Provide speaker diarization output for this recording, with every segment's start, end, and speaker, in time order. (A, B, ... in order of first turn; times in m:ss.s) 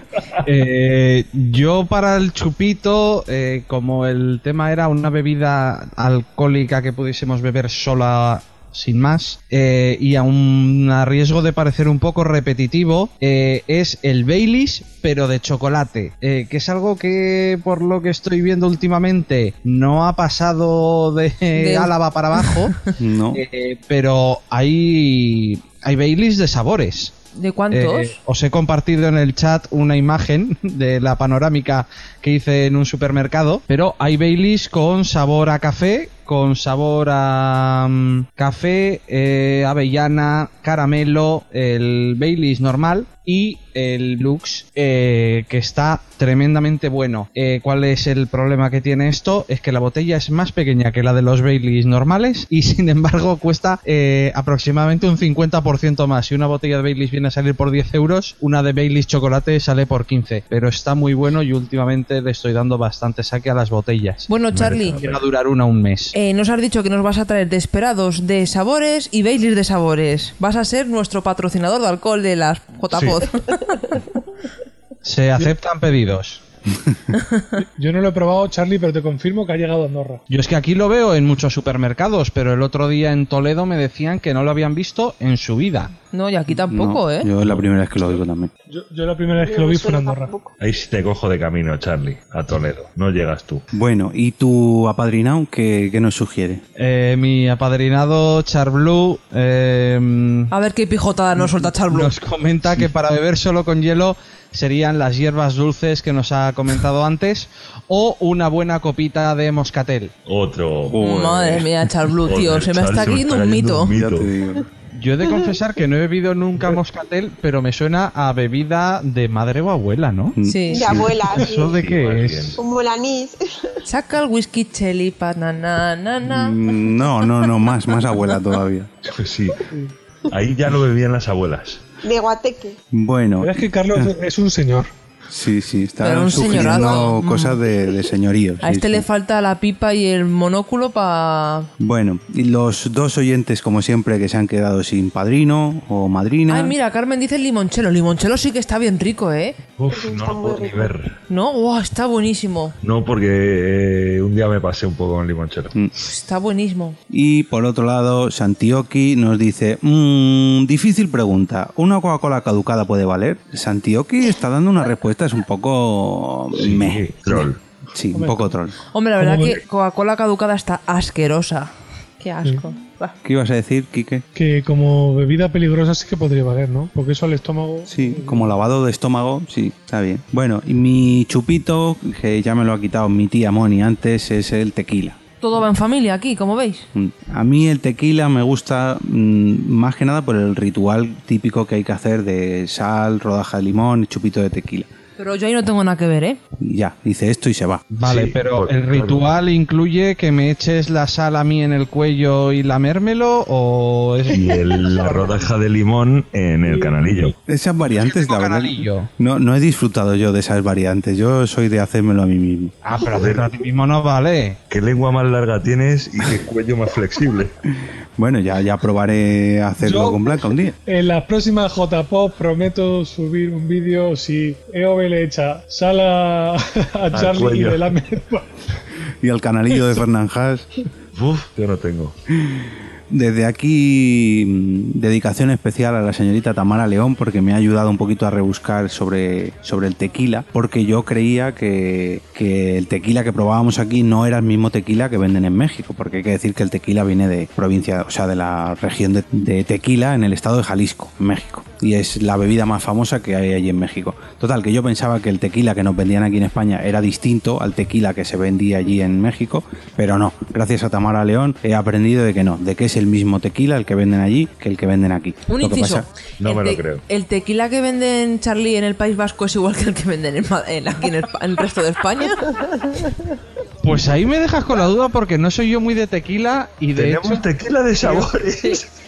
0:00.4-0:22.8 A
0:21.5-0:22.8 B
0:23.0-0:23.4 C
0:23.3-0:27.1 A
0:27.3-0:28.2 B
0:27.7-1:04.3 A
1:04.3-1:05.0 B
1:04.5-1:05.2 D
1:04.8-1:06.1 A
1:06.1-1:13.8 B
1:15.0-1:16.4 A
1:17.6-1:20.2 E
1:20.3-1:25.9 A
1:26.1-1:27.3 B
1:26.5-1:28.5 C
1:28.7-1:30.3 E
1:29.4-1:30.5 F
1:30.6-1:33.6 D
1:33.7-1:36.6 C
1:36.8-1:40.5 A
1:40.5-1:42.1 B
1:41.9-1:50.1 A
1:50.2-1:51.0 D
1:50.9-1:51.7 C
1:51.0-1:53.9 B
1:52.2-1:54.3 D
1:53.9-1:54.6 C
1:54.9-2:00.3 A
2:00.4-2:01.2 C
2:00.4-2:00.9 B
2:00.7-2:01.8 F
2:01.3-2:02.6 A
2:01.7-2:02.6 D
2:02.6-2:03.8 F
2:03.8-2:06.6 B
2:06.2-2:08.9 C
2:09.1-2:09.6 D
2:10.3-2:11.8 D
2:12.0-2:12.8 F
2:12.9-2:14.1 C
2:13.4-2:14.9 E
2:15.3-2:19.0 C
2:16.0-2:17.6 B
2:16.7-2:17.0 F
2:18.6-2:21.7 B
2:21.8-2:26.7 C
2:26.5-2:29.6 B
2:29.8-2:31.1 D
2:29.9-2:30.9 F
2:31.3-2:32.7 B
2:32.8-2:35.7 D
2:36.0-2:37.0 B
2:37.1-2:48.7 C
2:46.5-2:47.6 D
2:48.1-2:48.6 E
2:48.9-2:53.1 B
2:49.2-2:49.6 E
2:53.2-2:54.2 C
2:54.3-2:58.6 E
2:57.9-3:05.2 C
3:05.4-3:06.8 B
3:06.9-3:14.9 C
3:15.2-3:16.4 B
3:16.6-3:17.8 C
3:17.9-3:24.7 A
3:18.0-3:19.2 D
3:24.3-3:27.4 D
3:27.5-3:32.8 C
3:27.8-3:29.1 A
3:32.8-3:34.6 A
3:33.0-3:33.5 D
3:34.7-3:37.5 D
3:37.7-3:40.8 C
3:39.8-3:40.3 E
3:40.8-3:48.6 E
3:47.1-3:48.0 D
3:49.2-3:50.6 C
3:51.1-3:52.1 D
3:52.3-4:26.1 C
4:25.5-4:32.6 B
4:26.4-4:27.0 D
4:33.8-4:37.4 A
4:36.9-4:38.9 D
4:38.0-4:38.3 A